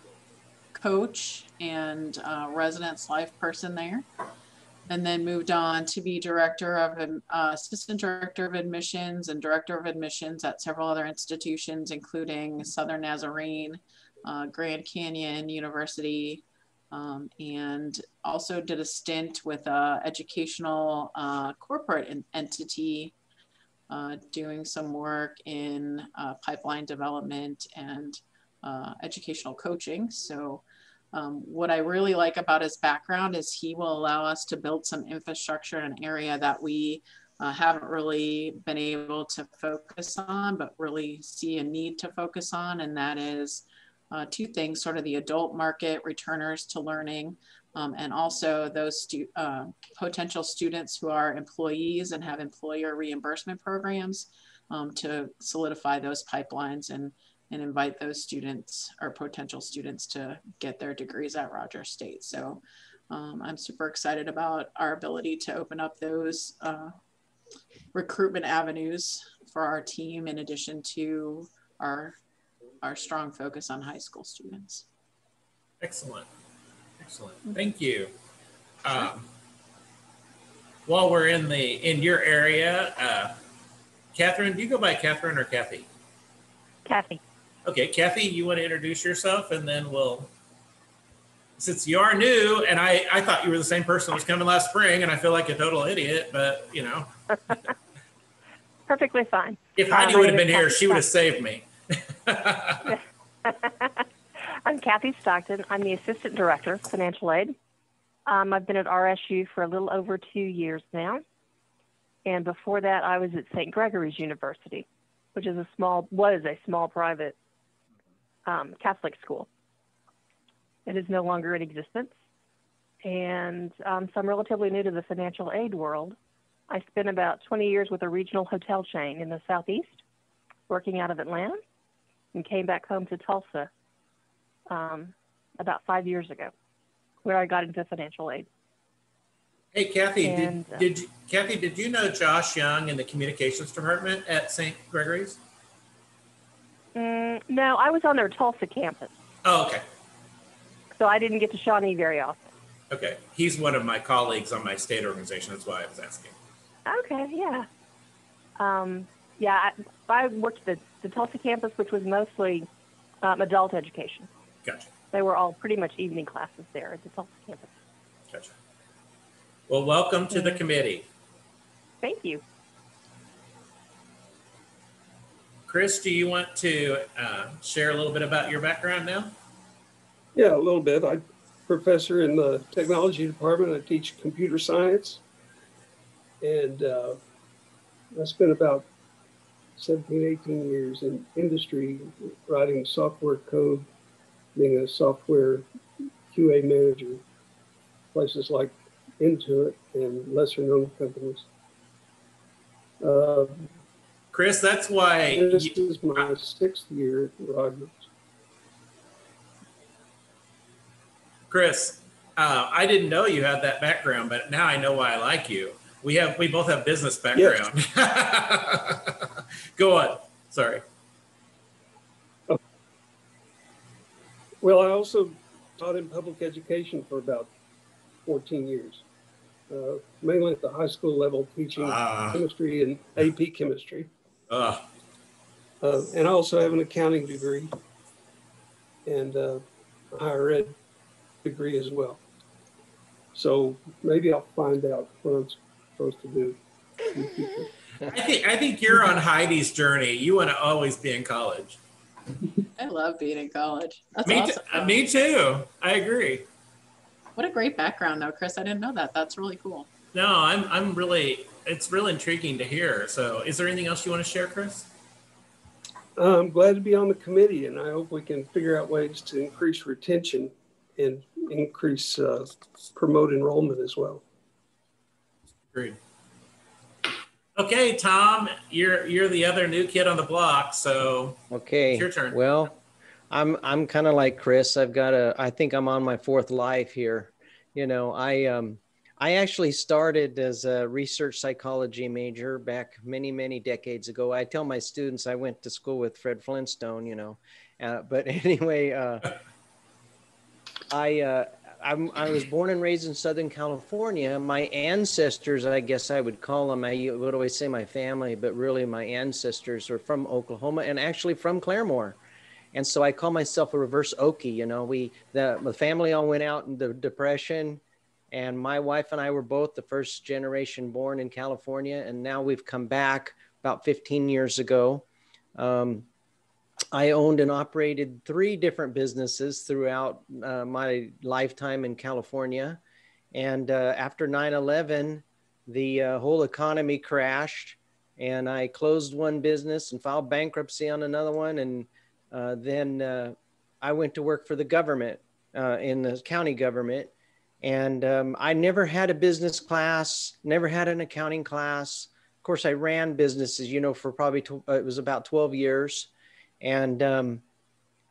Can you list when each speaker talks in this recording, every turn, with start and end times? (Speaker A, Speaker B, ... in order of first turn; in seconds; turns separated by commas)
Speaker A: 0.8-4.1, Speaker A: 4.9-23.1, Speaker A: 23.9-66.9, Speaker A: 67.9-72.2, Speaker A: 72.8-74.8, Speaker B: 75.8-76.3, Speaker B: 77.0-78.1, Speaker B: 78.8-79.3, Speaker B: 80.9-83.4, Speaker B: 84.1-85.9, Speaker C: 86.8-87.2, Speaker B: 87.7-90.3, Speaker B: 91.6-97.6, Speaker C: 98.9-101.0, Speaker B: 99.8-102.9, Speaker C: 103.5-107.6, Speaker C: 108.3-111.2, Speaker C: 112.3-117.4, Speaker C: 118.5-119.5, Speaker C: 120.9-122.1, Speaker C: 123.0-126.2, Speaker C: 126.7-129.9, Speaker C: 130.7-131.6, Speaker C: 132.3-133.7, Speaker C: 134.7-136.5, Speaker C: 137.2-138.5, Speaker B: 139.7-145.4, Speaker C: 140.2-140.8, Speaker C: 146.9-149.1, Speaker B: 149.4-149.8, Speaker C: 150.9-152.4, Speaker B: 152.9-156.3, Speaker C: 156.9-157.7, Speaker C: 158.6-162.7, Speaker C: 163.2-164.3, Speaker C: 165.1-167.7, Speaker B: 169.7-171.1, Speaker C: 170.3-170.6, Speaker C: 172.0-172.4, Speaker B: 175.7-179.3, Speaker D: 180.3-185.2, Speaker D: 186.4-187.2, Speaker D: 188.2-188.9, Speaker D: 189.8-193.9, Speaker D: 194.6-195.7, Speaker D: 196.3-197.2, Speaker D: 198.1-201.5, Speaker D: 203.0-203.7, Speaker B: 204.3-206.3, Speaker D: 205.3-208.1, Speaker B: 211.5-220.8, Speaker D: 224.6-227.5, Speaker D: 228.3-229.0, Speaker D: 229.7-234.1, Speaker B: 231.8-232.4, Speaker B: 234.5-234.8, Speaker D: 235.8-237.7, Speaker D: 239.1-240.7, Speaker D: 241.4-242.2, Speaker D: 243.3-247.7, Speaker B: 248.1-251.8, Speaker A: 252.8-255.0, Speaker B: 254.2-256.5, Speaker A: 257.4-259.9, Speaker B: 260.1-264.9, Speaker D: 266.2-274.2, Speaker B: 275.7-276.0, Speaker B: 277.6-281.4, Speaker E: 281.5-282.7, Speaker B: 281.9-282.4, Speaker E: 283.3-299.4, Speaker E: 300.9-312.2, Speaker E: 312.7-325.1, Speaker E: 325.6-326.1, Speaker E: 326.9-332.8, Speaker E: 333.3-356.1, Speaker E: 356.6-357.4